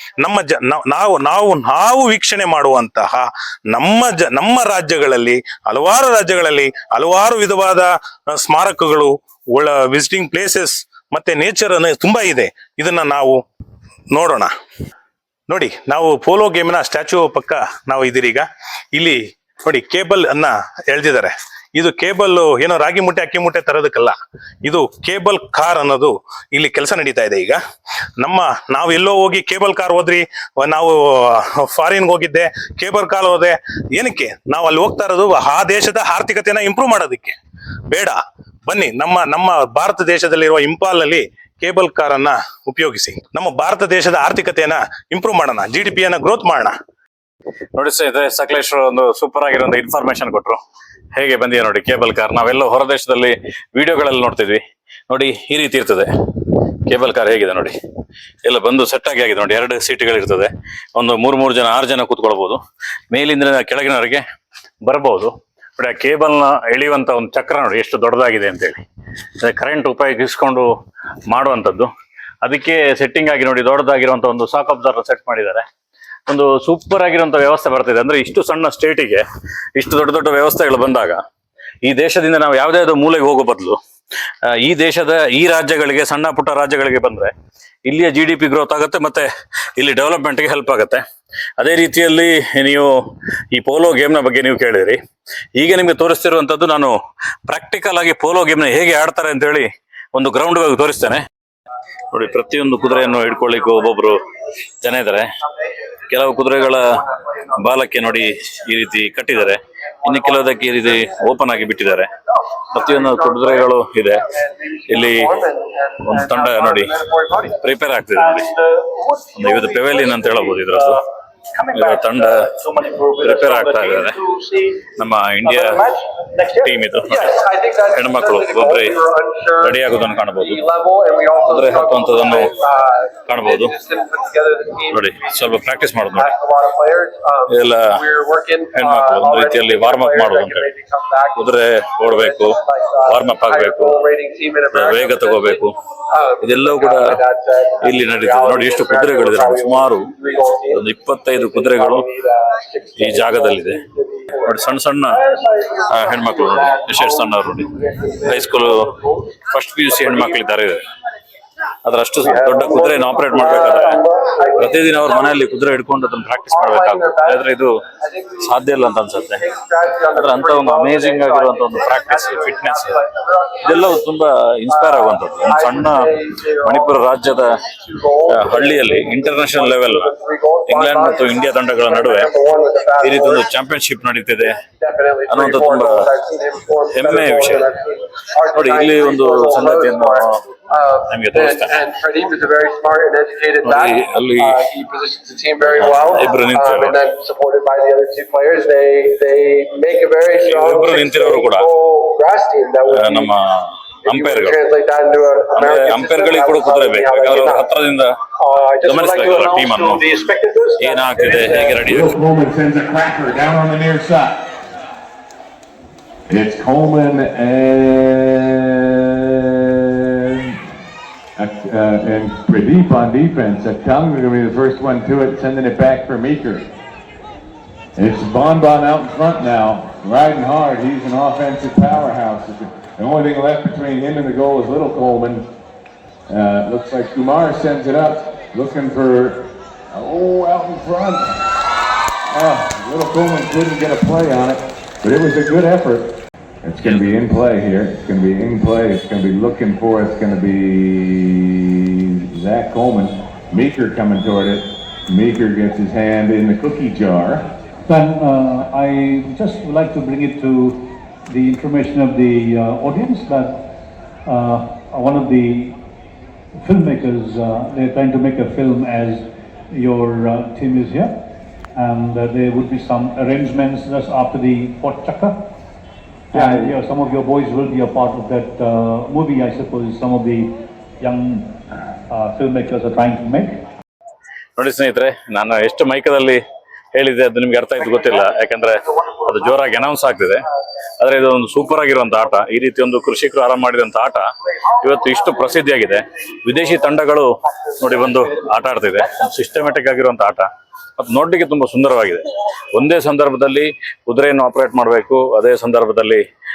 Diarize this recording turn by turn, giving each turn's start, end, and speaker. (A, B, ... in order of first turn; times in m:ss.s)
0:00.2-0:13.4 A
0:14.1-0:14.5 A
0:15.5-0:27.6 A
0:28.2-0:37.4 A
0:37.9-0:46.7 A
0:47.8-0:50.6 B
0:51.1-0:56.1 B
0:56.8-0:57.8 B
0:58.4-1:02.6 B
1:03.1-1:04.2 B
1:04.8-1:08.8 B
1:09.4-1:10.7 B
1:11.3-1:11.9 B
1:12.4-1:15.7 B
1:16.3-1:19.2 B
1:19.8-1:21.2 B
1:21.8-1:23.8 B
1:24.5-1:27.3 B
1:27.8-1:31.0 B
1:31.6-1:32.9 B
1:33.5-1:35.0 B
1:35.6-1:36.9 B
1:37.5-1:41.2 B
1:42.1-1:44.2 B
1:44.8-1:45.2 B
1:46.1-1:46.9 B
1:46.9-1:47.4 C
1:47.4-1:52.1 B
1:50.4-1:50.8 C
1:52.7-1:54.2 B
1:52.8-1:53.7 C
1:54.4-1:57.6 C
1:54.9-1:55.4 B
1:56.0-1:56.9 B
1:57.5-1:58.5 B
1:58.3-2:00.8 C
1:59.4-2:01.0 B
2:01.7-2:04.2 B
2:02.7-2:04.7 C
2:05.0-2:05.8 B
2:05.4-2:09.8 C
2:06.6-2:07.4 B
2:07.9-2:09.0 B
2:09.6-2:10.6 B
2:10.4-2:40.4 C
2:11.4-2:12.5 B
2:13.3-2:13.7 B
2:14.9-2:16.3 B
2:17.5-2:18.0 B
2:18.7-2:20.7 B
2:21.4-2:24.0 B
2:24.7-2:25.7 B
2:26.4-2:27.2 B
2:27.8-2:30.1 B
2:30.7-2:32.1 B
2:33.0-2:33.8 B
2:34.4-2:35.2 B
2:35.9-2:37.7 B
2:38.2-2:38.8 B
2:39.5-2:40.8 B
2:41.8-2:44.0 B
2:42.2-2:45.4 C
2:44.6-2:47.8 B
2:46.5-2:54.0 C
2:48.4-2:49.4 B
2:50.1-2:53.0 B
2:53.6-2:57.6 B
2:54.7-3:03.5 C
2:58.3-3:00.1 B
3:00.7-3:02.3 B
3:03.0-3:04.5 B
3:04.8-3:23.3 C
3:05.3-3:06.1 B
3:06.9-3:07.7 B
3:08.5-3:10.4 B
3:11.1-3:11.8 B
3:13.6-3:14.7 B
3:15.6-3:17.0 B
3:20.5-3:21.7 B
3:22.9-3:24.6 B
3:24.1-3:27.7 C
3:25.5-3:28.1 B
3:28.4-3:31.8 C
3:28.8-3:30.0 B
3:30.8-3:32.2 B
3:31.8-3:34.4 D
3:36.3-3:40.6 D
3:41.4-3:46.7 D
3:48.0-3:55.5 D
3:56.3-4:01.4 D
4:02.3-4:06.1 D
4:06.6-4:17.5 D
4:17.9-4:23.6 E
4:24.2-4:25.8 E
4:26.6-4:31.1 E
4:31.8-4:35.3 E
4:36.3-4:41.5 E
4:36.3-4:36.8 D
4:42.1-4:43.5 E
4:44.6-4:46.4 B
4:46.9-4:50.4 B
4:51.0-5:00.5 B
5:01.0-5:06.2 B